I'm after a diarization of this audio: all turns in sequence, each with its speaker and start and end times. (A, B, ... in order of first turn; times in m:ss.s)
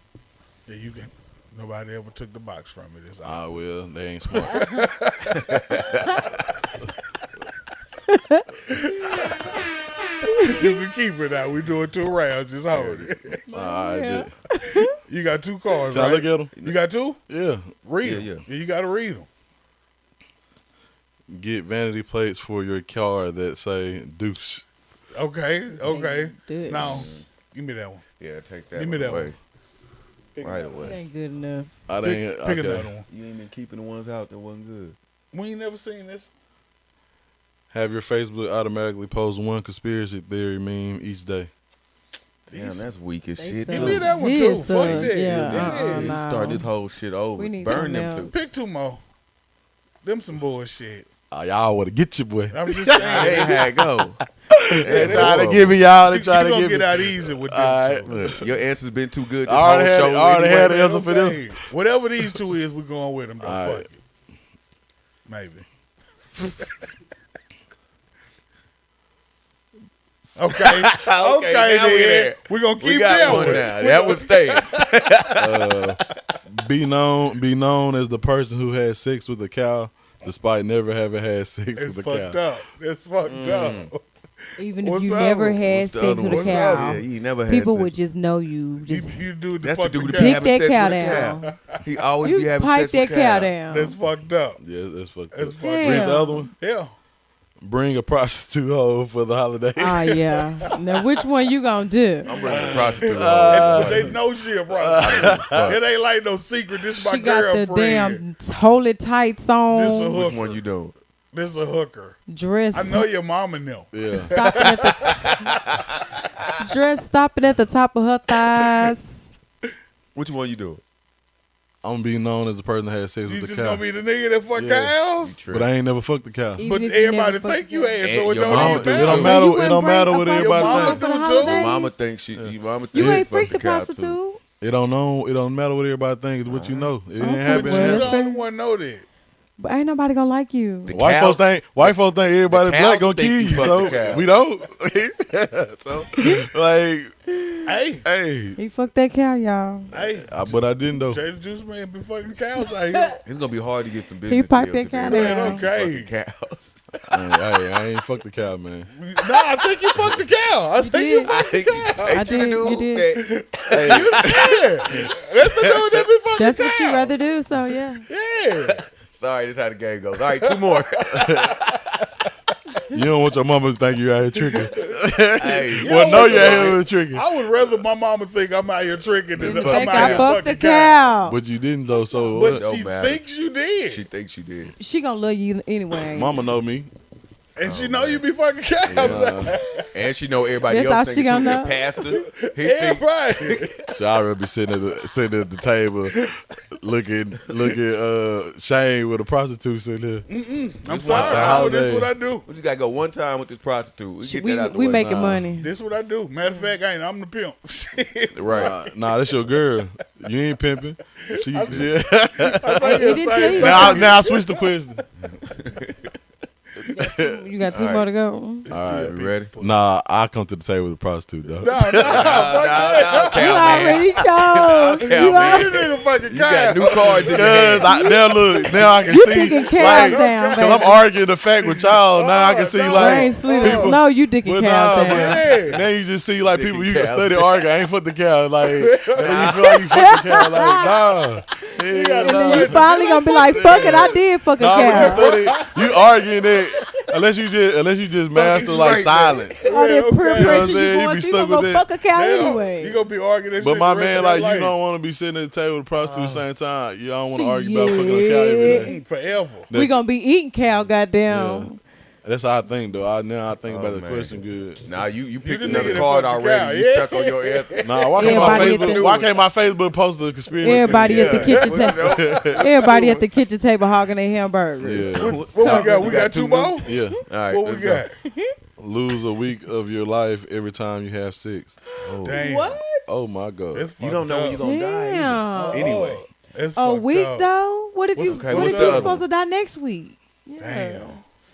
0:00.7-0:03.5 A
0:03.2-0:04.6 B
0:04.3-0:06.5 A
0:05.4-0:06.1 C
0:08.1-0:08.4 D
0:08.7-0:09.6 A
0:10.4-0:13.4 A
0:12.7-0:14.3 B
0:13.5-0:14.9 D
0:14.9-0:17.2 A
0:15.9-0:16.5 B
0:17.3-0:17.7 B
0:17.8-0:19.3 A
0:18.0-0:18.4 C
0:21.3-0:24.6 B
0:25.1-0:28.0 A
0:25.8-0:27.0 D
0:26.7-0:27.3 C
0:28.2-0:29.4 C
0:28.8-0:29.4 A
0:30.4-0:30.7 A
0:30.4-0:31.0 C
0:30.7-0:31.7 D
0:31.9-0:32.9 B
0:31.9-0:33.1 A
0:33.1-0:35.0 C
0:35.3-0:36.3 A
0:37.7-0:41.5 B
0:42.5-0:42.9 A
0:42.5-0:44.2 C
0:43.4-0:46.6 D
0:43.7-0:46.2 A
0:44.7-0:48.3 C
0:47.4-0:48.3 D
0:48.3-0:49.0 A
0:50.0-0:51.1 A
0:51.3-0:53.7 B
0:52.5-0:53.7 A
0:52.9-0:54.2 C
0:54.5-0:58.4 B
0:54.8-0:55.8 C
0:54.9-0:55.5 A
0:56.0-0:58.3 A
0:58.0-1:01.0 C
0:59.4-1:01.6 B
1:00.8-1:04.0 A
1:03.4-1:03.9 B
1:05.3-1:05.7 A
1:06.4-1:06.7 A
1:10.4-1:14.8 A
1:10.5-1:15.9 C
1:13.3-1:13.6 B
1:15.4-1:22.4 B
1:21.8-1:24.0 A
1:23.2-1:23.9 C
1:24.6-1:29.2 D
1:24.8-1:25.7 A
1:25.6-1:27.9 C
1:26.2-1:27.0 A
1:28.8-1:31.8 A
1:29.6-1:33.6 C
1:30.1-1:31.5 D
1:32.2-1:34.0 D
1:33.6-1:34.6 A
1:34.6-1:36.5 B
1:35.3-1:36.9 A
1:35.6-1:36.5 D
1:37.6-1:40.2 B
1:39.8-1:42.4 D
1:42.3-1:44.2 C
1:42.3-1:48.2 A
1:42.5-1:44.1 B
1:44.7-1:45.7 B
1:45.0-1:45.8 C
1:47.0-1:50.2 D
1:49.7-1:50.6 A
1:50.1-1:51.0 C
1:51.3-1:52.2 A
1:52.3-1:53.0 D
1:52.7-1:56.0 A
1:53.9-1:54.4 B
1:54.2-1:55.4 D
1:55.0-1:55.3 C
1:56.6-1:59.2 D
2:00.2-2:00.8 C
2:01.8-2:03.8 B
2:03.2-2:05.4 A
2:04.5-2:05.0 B
2:05.2-2:05.7 C
2:05.5-2:06.7 B
2:06.6-2:08.0 D
2:06.7-2:09.4 A
2:08.0-2:09.4 C
2:08.4-2:11.0 B
2:09.2-2:11.9 D
2:10.4-2:11.7 A
2:11.4-2:14.2 C
2:12.4-2:13.3 B
2:12.9-2:14.4 D
2:14.6-2:18.2 B
2:16.4-2:16.9 C
2:17.2-2:18.5 D
2:17.4-2:19.0 A
2:19.6-2:20.9 D
2:20.9-2:22.0 C
2:20.9-2:27.1 B
2:22.5-2:24.3 C
2:27.4-2:27.6 D
2:27.7-2:28.0 A
2:28.0-2:28.6 B
2:28.6-2:29.9 D
2:29.9-2:33.2 A
2:30.2-2:31.2 B
2:32.8-2:33.1 D
2:33.2-2:36.8 C
2:34.2-2:35.7 D
2:35.0-2:36.1 A
2:37.1-2:38.9 B
2:39.0-2:42.5 A
2:39.3-2:40.2 C
2:40.8-2:43.2 D
2:41.2-2:45.1 C
2:43.1-2:47.2 A
2:45.6-2:46.0 C
2:46.4-2:48.0 D
2:48.1-2:48.8 A
2:49.0-2:51.7 C
2:50.3-2:50.8 A
2:51.1-2:51.5 B
2:52.9-2:57.3 B
2:54.4-2:54.9 A
2:55.4-2:56.8 C
2:55.7-3:01.1 A
2:59.4-3:00.3 C
2:59.4-3:01.4 D
3:01.2-3:02.6 B
3:02.0-3:02.4 D
3:02.3-3:04.1 A
3:02.4-3:03.2 C
3:03.9-3:04.8 C
3:04.8-3:06.4 D
3:06.1-3:06.9 B
3:07.6-3:09.9 A
3:07.6-3:08.2 C
3:08.9-3:09.4 C
3:08.9-3:09.6 B
3:09.9-3:13.7 C
3:10.6-3:12.1 D
3:12.0-3:13.8 A
3:13.9-3:16.3 B
3:16.8-3:20.3 B
3:20.3-3:22.5 A
3:20.9-3:21.8 C
3:21.0-3:22.1 B
3:22.4-3:25.1 C
3:24.2-3:25.7 D
3:24.7-3:25.5 B
3:25.6-3:29.2 A
3:28.4-3:35.0 B
3:28.4-3:28.7 C
3:31.2-3:34.9 A
3:32.9-3:34.1 D
3:33.6-3:34.1 C
3:35.5-3:36.1 C
3:36.9-3:37.4 B
3:37.2-3:38.7 D
3:37.7-3:38.1 C
3:38.7-3:39.5 C
3:38.7-3:39.8 A
3:38.7-3:42.4 B
3:41.6-3:44.0 A
3:42.0-3:48.0 C
3:43.3-3:45.8 D
3:44.8-3:48.9 A
3:47.2-4:02.9 B
3:49.0-3:51.0 D
3:49.6-3:54.0 A
3:52.9-3:55.5 D
3:54.8-3:55.8 A
3:56.4-3:57.7 C
3:58.6-4:00.1 A
3:59.1-4:00.4 C
3:59.6-4:01.0 D
4:01.7-4:07.0 A
4:02.2-4:05.3 D
4:03.6-4:04.0 B
4:04.6-4:09.6 B
4:08.3-4:09.6 C
4:09.6-4:10.8 A
4:09.7-4:13.0 D
4:10.4-4:11.9 B
4:12.1-4:14.8 A
4:13.6-4:18.9 B
4:16.0-4:16.5 A
4:17.3-4:19.0 D
4:18.7-4:19.7 A
4:19.7-4:20.0 B
4:19.7-4:21.8 D
4:21.3-4:21.7 B
4:22.2-4:24.8 B
4:23.6-4:29.4 C
4:25.4-4:28.4 A
4:25.7-4:26.1 B
4:27.8-4:32.5 B
4:28.2-4:29.2 D
4:30.6-4:36.3 D
4:30.8-4:32.7 A
4:31.0-4:33.4 C
4:34.8-4:35.5 B
4:34.9-4:38.1 C
4:35.2-4:36.9 A
4:36.8-4:37.2 B
4:36.9-4:37.2 D
4:37.5-4:38.2 A
4:38.8-4:41.8 B
4:41.9-4:43.1 D
4:42.0-4:42.8 C
4:42.2-4:42.8 A
4:43.1-4:43.9 B
4:43.7-4:44.7 A
4:44.0-4:46.2 C
4:44.5-4:46.0 D
4:45.5-4:47.5 A
4:46.7-4:51.2 D
4:48.1-4:49.2 A
4:48.2-4:49.2 C
4:50.6-4:51.2 A